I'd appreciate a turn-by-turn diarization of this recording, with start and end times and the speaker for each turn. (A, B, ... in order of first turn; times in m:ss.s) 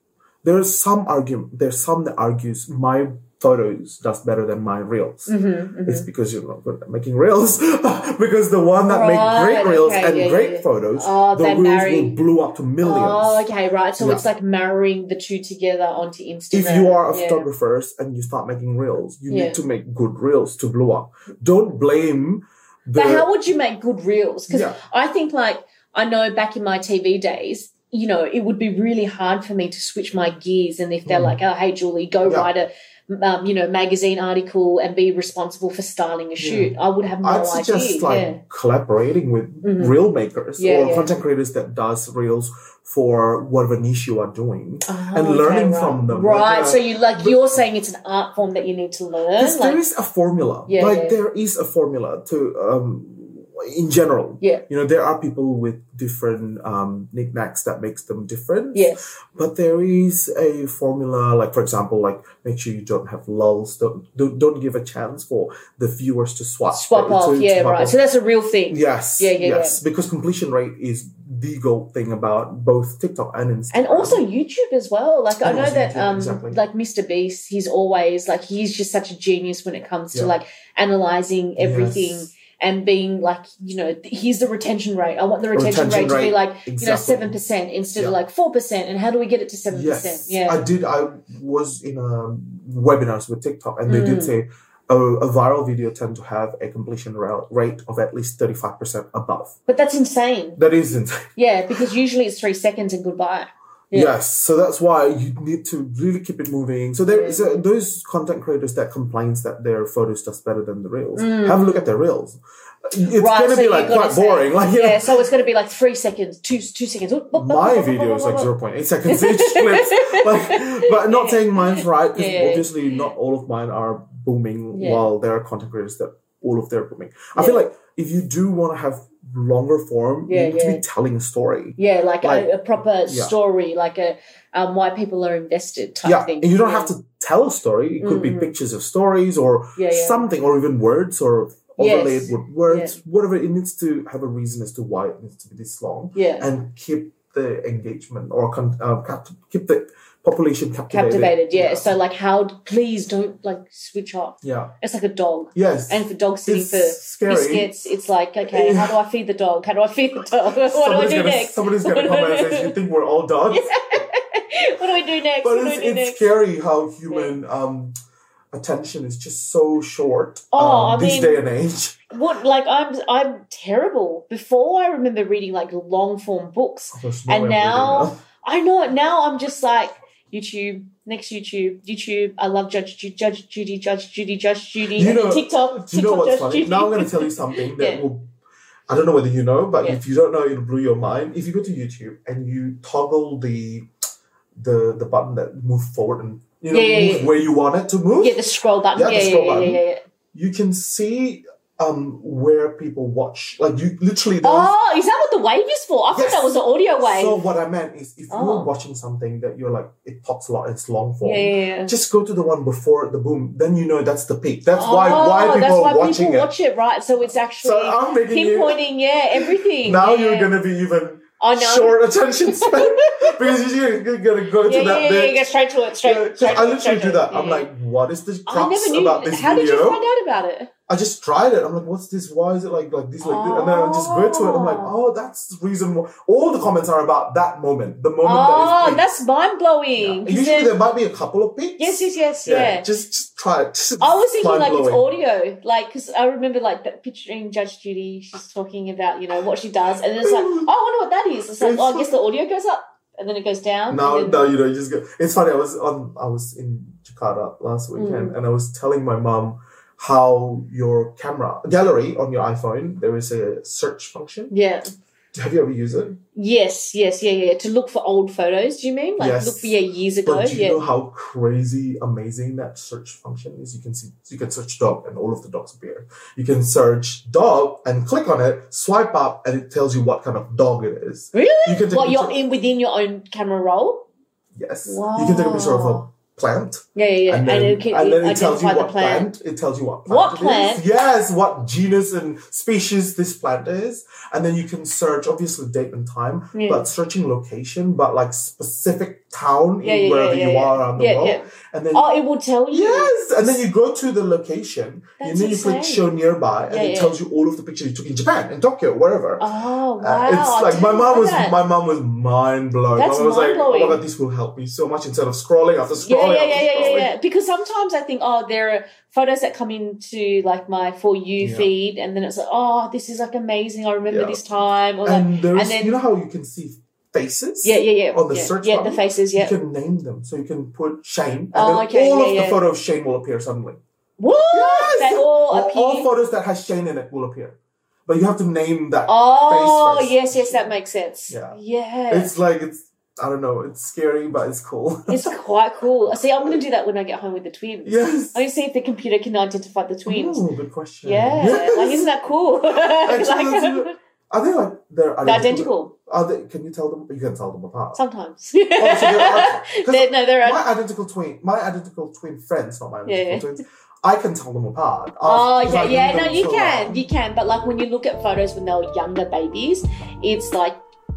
0:00.4-0:05.3 A
0:05.3-0:06.1 B
0:05.8-0:13.5 A
0:08.9-0:12.3 B
0:12.8-0:17.5 B
0:14.0-0:14.2 A
0:16.5-0:23.3 A
0:19.3-0:19.6 B
0:22.9-0:38.4 B
0:24.5-0:24.8 A
0:31.1-0:31.4 A
0:32.2-0:32.5 A
0:36.4-0:47.6 A
0:39.6-0:40.0 B
0:40.6-0:41.1 B
0:44.9-0:49.8 B
0:49.4-1:08.0 A
0:50.7-0:51.2 B
0:58.7-0:59.2 B
1:06.7-1:09.8 B
1:08.7-1:14.2 A
1:13.7-1:30.7 B
1:15.3-1:16.6 A
1:21.6-1:22.3 A
1:25.5-1:27.4 A
1:29.7-1:39.6 A
1:33.9-1:34.3 B
1:39.7-1:40.6 B
1:40.6-1:41.9 A
1:41.4-1:44.2 B
1:43.9-1:55.2 A
1:47.1-1:47.7 B
1:51.2-1:51.9 B
1:53.1-1:58.5 B
1:57.3-2:13.4 A
1:59.1-2:03.0 B
2:04.7-2:05.1 B
2:07.4-2:07.7 B
2:10.3-2:10.8 B
2:11.8-2:16.9 B
2:16.0-2:31.9 A
2:18.0-2:18.5 B
2:19.8-2:20.3 B
2:21.8-2:23.0 B
2:26.2-2:26.5 B
2:30.9-2:42.7 B
2:34.4-2:34.7 A
2:35.6-2:37.7 A
2:38.5-2:39.0 A
2:40.5-2:43.7 A
2:43.5-2:46.3 B
2:45.4-2:48.0 A
2:47.1-2:47.3 B
2:48.5-2:52.0 A
2:50.6-2:51.4 B
2:52.1-3:08.1 B
2:56.9-2:58.2 A
3:04.9-3:08.3 A
3:08.9-3:13.9 A
3:14.6-3:18.4 A
3:16.7-3:17.3 B
3:18.2-3:20.0 B
3:18.9-3:19.8 A
3:20.3-3:24.7 A
3:24.4-3:27.4 B
3:26.1-3:36.5 A
3:28.3-3:28.7 B
3:31.2-3:31.9 B
3:34.7-3:40.6 B
3:37.6-3:38.8 A
3:39.3-3:45.5 A
3:41.4-3:43.4 B
3:44.6-3:47.7 B
3:46.0-3:50.0 A
3:48.5-3:50.7 B
3:50.9-3:59.1 A
3:53.2-3:54.9 B
3:58.2-4:00.8 B
4:00.0-4:05.1 A
4:01.8-4:02.9 B
4:04.0-4:14.5 B
4:10.2-4:10.7 A
4:11.6-4:12.1 A
4:13.9-4:24.5 A
4:18.0-4:18.4 B
4:24.5-4:24.9 B
4:25.3-4:26.1 A
4:26.2-4:30.9 B
4:29.2-4:42.4 A
4:41.3-4:44.1 B
4:44.6-5:02.1 A
4:44.9-4:46.0 B
4:47.0-4:49.3 B
4:50.1-4:50.8 B
4:56.5-4:56.9 B
4:59.8-5:03.5 B
5:02.7-5:09.5 A
5:05.2-5:06.1 B
5:06.7-5:07.2 B
5:09.4-5:11.6 B
5:10.0-5:17.1 A
5:12.9-5:14.0 B
5:16.0-5:26.0 B
5:21.4-5:21.7 A
5:24.1-5:24.4 A
5:25.0-5:33.8 A
5:27.6-5:29.5 B
5:31.5-5:32.6 B
5:34.2-5:36.1 B
5:34.5-5:40.8 A
5:39.1-5:42.3 B
5:41.3-5:41.6 A
5:42.1-5:45.3 A
5:45.1-5:50.4 B
5:46.1-5:46.6 A
5:47.8-5:48.4 A
5:50.1-5:52.1 A
5:51.0-5:53.9 B
5:52.7-5:58.0 A
5:55.2-5:55.9 B
5:58.0-6:00.7 B
5:58.8-6:07.0 A
6:03.0-6:03.5 B
6:05.2-6:10.8 B